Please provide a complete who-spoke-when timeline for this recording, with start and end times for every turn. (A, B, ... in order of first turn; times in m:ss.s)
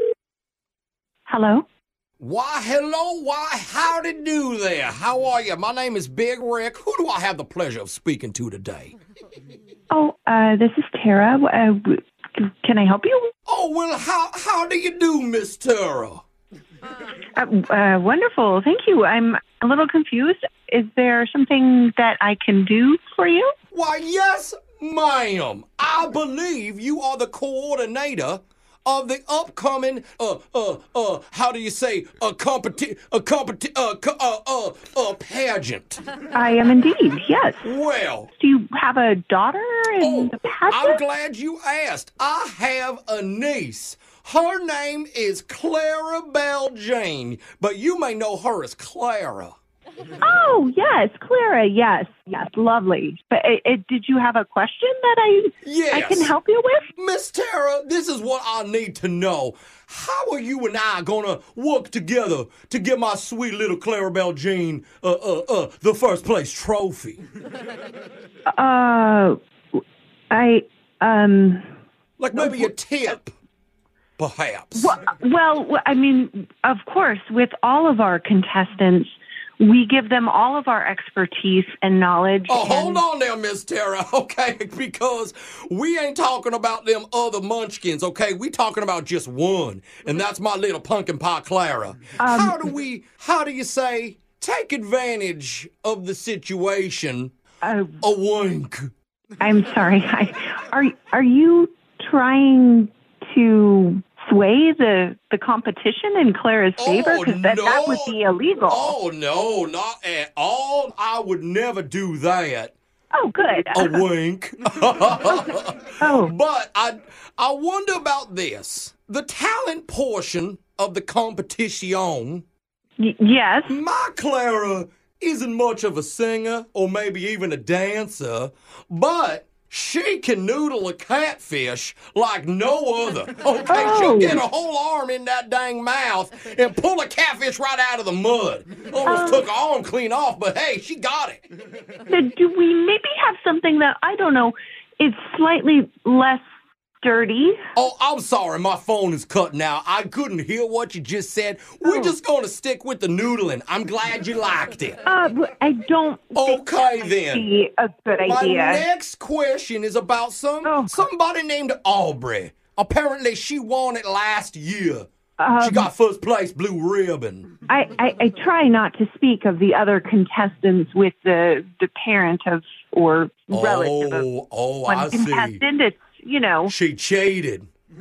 0:01.3-0:01.6 A
0:02.2-0:08.9 B
0:09.9-0:13.3 A
0:13.5-0:16.2 B
0:17.4-0:23.5 A
0:23.7-0:36.0 B
0:36.4-0:37.6 A
0:37.6-0:38.3 B
0:38.4-0:41.0 A
0:40.0-0:49.6 B
0:50.2-0:56.9 A
0:55.6-0:56.3 B
0:57.0-1:07.2 B
1:08.6-1:09.4 A
1:10.3-1:11.7 A
1:12.2-1:13.3 B
1:12.3-1:12.7 A
1:14.2-1:14.9 B
1:14.8-1:23.0 A
1:22.5-1:37.3 B
1:32.2-1:32.6 A
1:37.6-1:38.0 A
1:38.0-1:38.9 B
1:39.4-1:49.0 A
1:46.8-1:48.2 B
1:48.7-1:52.7 B
1:53.1-1:54.0 A
1:53.7-2:02.4 B
1:56.0-1:56.3 A
2:03.0-2:03.7 A
2:03.7-2:21.4 B
2:13.7-2:14.4 A
2:19.1-2:19.5 A
2:22.1-2:26.4 A
2:27.0-2:27.6 A
2:27.8-2:35.0 B
2:31.8-2:32.2 A
2:35.1-2:38.8 A
2:36.4-2:37.5 B
2:38.2-2:45.1 B
2:40.6-2:41.0 A
2:45.4-2:45.9 A
2:45.6-2:47.5 B
2:47.7-2:54.3 A
2:53.5-2:55.6 B
2:54.9-2:56.7 A
2:56.7-2:57.7 B